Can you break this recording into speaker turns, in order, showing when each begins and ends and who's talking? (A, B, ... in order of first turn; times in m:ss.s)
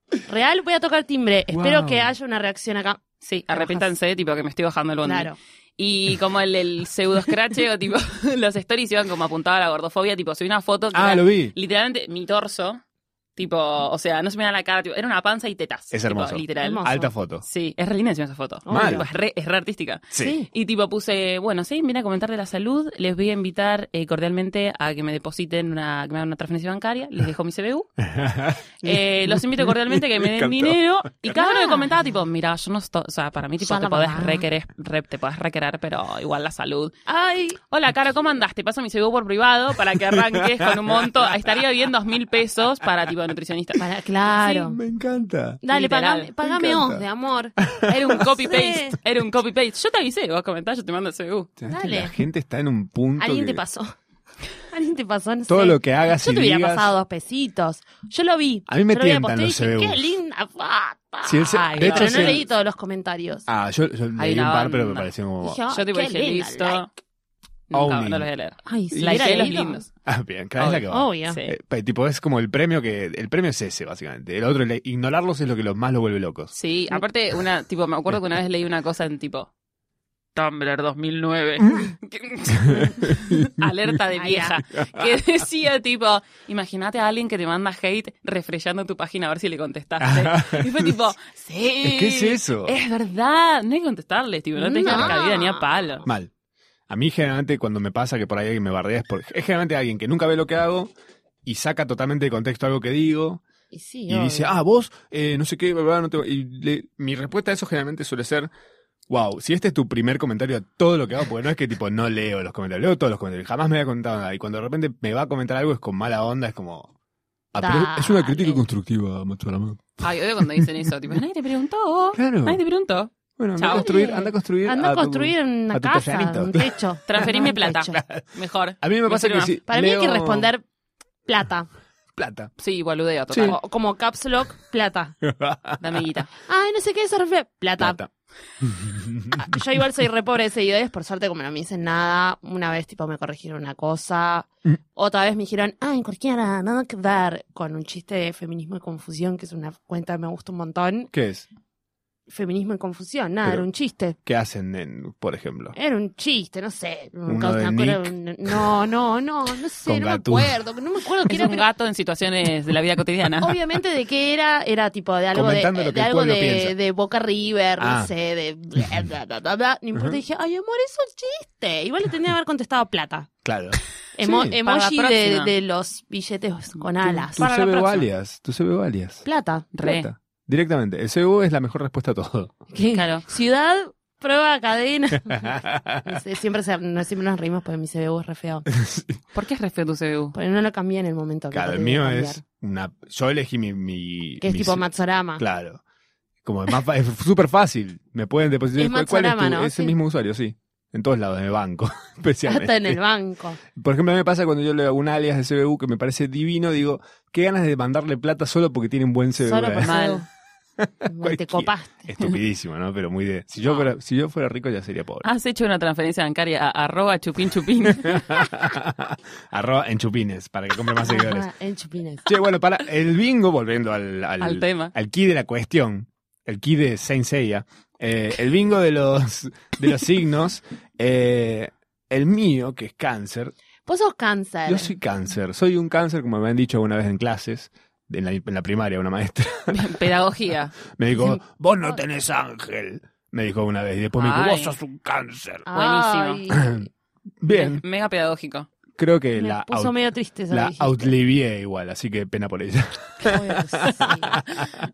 0:00.2-0:03.9 A
0:01.5-0:02.1 B
0:03.2-0:12.8 C
0:05.0-0:05.4 A
0:10.9-0:11.5 B
0:13.4-0:16.9 C
0:15.9-0:17.4 B
0:16.6-0:17.1 A
0:17.4-0:27.9 C
0:18.6-0:19.1 A
0:18.7-0:19.0 B
0:20.2-0:20.5 A
0:28.0-0:30.8 B
0:28.8-0:36.9 C
0:31.3-0:31.9 A
0:33.6-0:34.4 A
0:37.0-0:37.6 A
0:37.7-0:43.8 C
0:40.1-0:41.2 B
0:43.8-0:44.8 A
0:44.4-0:45.6 B
0:45.6-0:49.0 A
0:45.7-0:46.3 C
0:46.4-0:47.0 B
0:47.8-0:51.6 C
0:51.6-0:53.6 B
0:51.7-0:52.1 A
0:53.2-0:53.9 A
0:54.7-1:03.4 A
0:55.5-0:56.9 B
0:58.7-1:00.0 B
1:01.2-1:02.4 B
1:01.7-1:02.4 C
1:03.5-1:05.6 B
1:04.2-1:05.1 C
1:05.4-1:06.8 A
1:05.7-1:06.9 C
1:07.7-1:09.9 C
1:07.7-1:08.3 B
1:08.6-1:09.8 A
1:08.9-1:09.4 B
1:10.0-1:16.5 B
1:10.6-1:11.5 C
1:10.9-1:11.4 A
1:16.5-1:19.5 C
1:20.4-1:36.0 C
1:22.5-1:23.6 B
1:24.1-1:24.6 A
1:24.9-1:25.2 B
1:30.0-1:31.0 B
1:31.8-1:32.7 B
1:34.6-1:35.6 A
1:36.0-1:36.3 B
1:36.9-1:40.9 B
1:41.4-1:43.4 B
1:43.7-1:44.5 A
1:44.1-1:48.5 B
1:49.1-1:56.9 B
1:57.5-2:00.9 B
1:57.6-1:58.6 A
2:00.0-2:04.0 C
2:02.1-2:02.6 B
2:03.4-2:06.8 B
2:03.6-2:08.0 A
2:07.1-2:09.5 C
2:07.7-2:08.2 B
2:08.8-2:10.5 B
2:09.7-2:10.6 A
2:11.2-2:11.7 A
2:12.1-2:12.5 B
2:12.6-2:13.6 C
2:13.3-2:13.6 B
2:13.4-2:15.1 A
2:15.2-2:16.0 B
2:15.8-2:16.3 C
2:16.4-2:18.0 A
2:17.8-2:18.1 B
2:18.6-2:19.6 B
2:19.3-2:31.1 A
2:31.1-2:31.5 B
2:32.3-2:34.2 A
2:34.2-2:35.7 B
2:35.7-2:41.7 A
2:37.3-2:38.7 B
2:39.8-2:40.6 B
2:41.3-2:43.6 C
2:43.4-2:53.3 A
2:45.3-2:46.7 B
2:47.8-2:48.1 B
2:49.9-2:50.2 B
2:53.4-2:54.6 B
2:54.1-2:57.4 A
2:54.6-2:55.5 C
2:57.0-2:58.1 C
2:57.3-2:59.2 B
2:59.2-2:59.8 A
2:59.7-3:00.1 C
2:59.8-3:02.6 B
3:02.7-3:08.7 A
3:02.9-3:03.2 C
3:05.3-3:06.2 B
3:08.7-3:09.2 B
3:09.3-3:10.3 C
3:10.3-3:12.4 A
3:11.5-3:14.8 B
3:14.4-3:15.4 A
3:15.4-3:15.8 B
3:16.4-3:23.0 B
3:18.8-3:19.9 A
3:22.4-3:23.6 A
3:23.7-3:29.9 B
3:29.4-3:30.2 A
3:29.8-3:30.2 C
3:30.8-3:35.2 B
3:31.0-3:32.1 A
3:35.2-3:38.4 C
3:37.9-3:41.5 B
3:41.0-3:42.4 A
3:42.2-3:53.5 B
3:44.4-3:44.9 C
3:53.8-3:54.9 A
3:54.7-4:00.1 B
3:59.7-4:00.8 C
4:00.9-4:05.7 B
4:01.1-4:01.4 A
4:04.2-4:04.8 C
4:05.6-4:06.9 A
4:05.7-4:06.4 C
4:06.5-4:06.8 B
4:07.4-4:07.8 B
4:07.5-4:08.7 C
4:09.0-4:10.0 B
4:09.4-4:11.1 A
4:10.5-4:14.7 B
4:13.2-4:14.4 A